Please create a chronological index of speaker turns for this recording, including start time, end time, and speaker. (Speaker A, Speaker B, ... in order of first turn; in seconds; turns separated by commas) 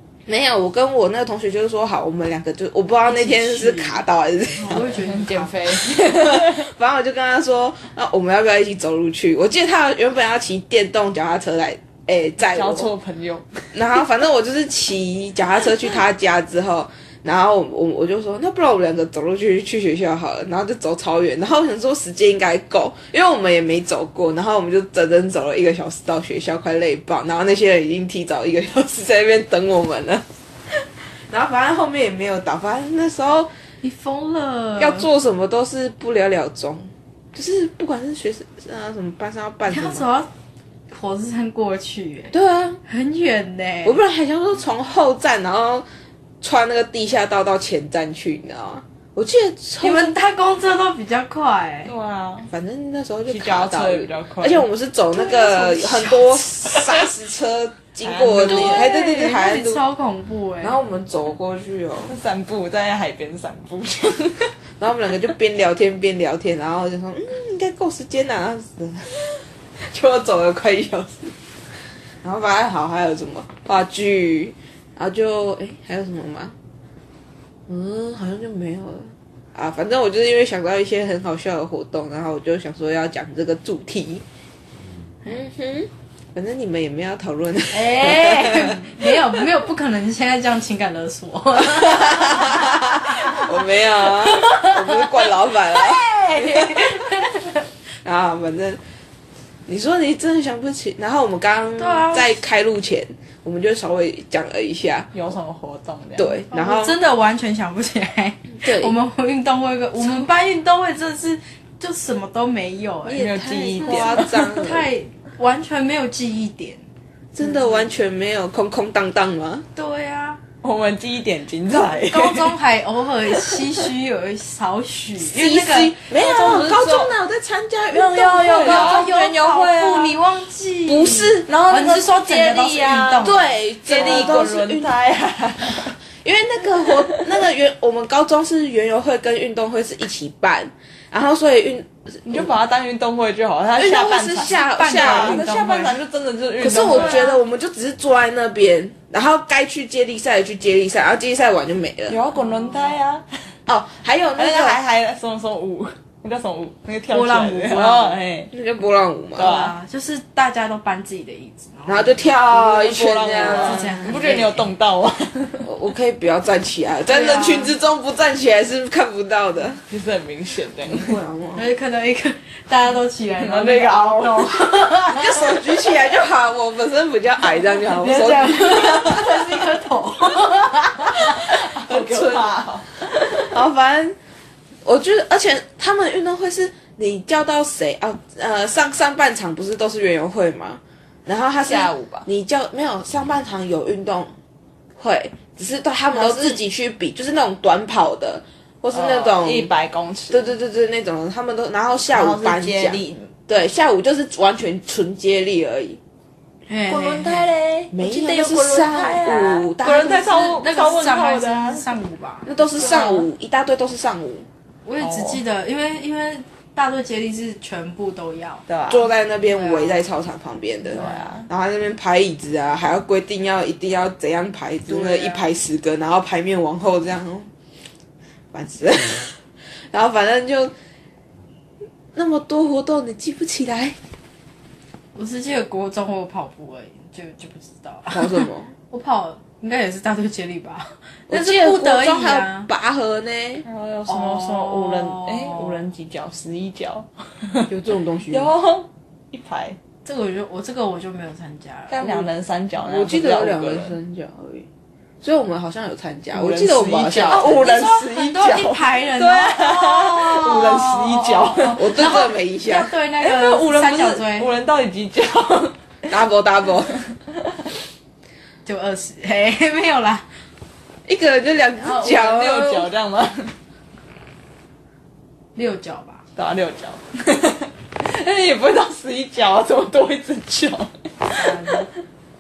Speaker A: 0.3-4.9, Speaker B: 3.1-4.0, Speaker B: 4.5-5.8, Speaker C: 4.7-6.7, Speaker A: 5.8-12.9, Speaker C: 12.4-13.7, Speaker A: 13.7-33.5, Speaker B: 33.8-35.1, Speaker A: 34.8-40.0, Speaker B: 39.7-40.3, Speaker B: 40.9-42.3, Speaker A: 42.3-42.8, Speaker B: 42.9-44.0, Speaker A: 43.9-45.9, Speaker A: 46.4-50.2, Speaker B: 49.8-51.9, Speaker C: 51.9-52.5, Speaker A: 52.5-59.8, Speaker C: 53.3-54.6, Speaker B: 55.1-57.0, Speaker C: 58.0-58.9, Speaker B: 58.4-60.8, Speaker A: 60.6-62.1, Speaker C: 62.1-64.5, Speaker A: 64.8-71.4, Speaker A: 72.2-76.5, Speaker A: 77.7-84.2, Speaker A: 85.2-89.4, Speaker B: 87.7-97.7, Speaker A: 91.8-96.1, Speaker C: 95.9-96.7, Speaker A: 98.0-98.8, Speaker A: 99.7-105.1, Speaker B: 101.8-102.4, Speaker C: 105.1-106.4, Speaker A: 106.2-107.0, Speaker B: 106.5-116.8, Speaker A: 108.6-108.9, Speaker A: 113.1-114.9, Speaker C: 113.2-114.6, Speaker A: 117.3-119.6, Speaker B: 117.4-117.8, Speaker B: 119.8-120.4, Speaker C: 120.6-122.5, Speaker B: 121.7-126.0, Speaker A: 125.2-129.3, Speaker C: 126.1-127.1, Speaker C: 127.9-130.2, Speaker B: 128.5-134.4, Speaker A: 130.9-131.6, Speaker C: 131.5-135.9, Speaker A: 133.2-134.9, Speaker A: 136.2-142.5, Speaker C: 136.9-137.2, Speaker C: 142.2-147.3, Speaker A: 143.8-145.4, Speaker B: 144.5-146.0, Speaker A: 146.6-152.2, Speaker B: 146.7-147.4, Speaker C: 152.1-153.2, Speaker B: 152.3-152.9, Speaker A: 153.7-154.8, Speaker C: 154.4-158.5, Speaker B: 157.1-158.2, Speaker A: 158.5-159.5, Speaker C: 159.4-159.8, Speaker B: 159.4-162.3, Speaker A: 161.9-164.5, Speaker C: 162.5-165.7, Speaker B: 163.4-164.5, Speaker A: 165.6-169.8, Speaker B: 167.1-167.8, Speaker C: 169.9-171.2, Speaker A: 170.9-171.7, Speaker B: 171.6-175.6, Speaker C: 173.4-174.9, Speaker A: 175.1-179.6, Speaker B: 177.8-181.7, Speaker C: 181.3-183.6, Speaker A: 181.7-182.6, Speaker A: 183.5-184.2, Speaker A: 184.8-194.3, Speaker C: 191.6-192.3, Speaker A: 195.0-199.7, Speaker C: 196.1-196.6, Speaker C: 198.9-200.5, Speaker A: 200.3-206.0, Speaker C: 202.1-203.3, Speaker B: 206.7-207.5, Speaker C: 206.9-211.8, Speaker A: 207.9-210.6, Speaker B: 210.5-213.2, Speaker A: 212.4-214.5, Speaker C: 212.8-213.3, Speaker B: 214.8-218.6, Speaker C: 215.0-215.4, Speaker C: 218.7-219.1, Speaker A: 218.9-227.5, Speaker B: 219.5-220.0, Speaker B: 220.9-221.3, Speaker C: 220.9-221.5, Speaker B: 224.9-225.4, Speaker A: 228.5-230.7, Speaker A: 232.2-234.0, Speaker B: 235.2-242.7, Speaker A: 238.1-238.7, Speaker A: 241.3-243.7, Speaker C: 243.7-247.7, Speaker B: 244.1-245.8, Speaker A: 247.7-248.5, Speaker C: 248.3-249.8, Speaker B: 250.1-252.3, Speaker C: 251.9-253.9, Speaker A: 252.8-254.7, Speaker A: 255.2-257.9, Speaker C: 256.3-262.0, Speaker B: 257.1-264.5, Speaker A: 261.7-262.9, Speaker C: 263.2-265.7, Speaker A: 266.1-266.9, Speaker B: 268.6-270.3, Speaker A: 271.1-272.9, Speaker C: 271.8-273.5, Speaker B: 275.6-276.3, Speaker C: 276.4-281.7, Speaker B: 281.3-281.9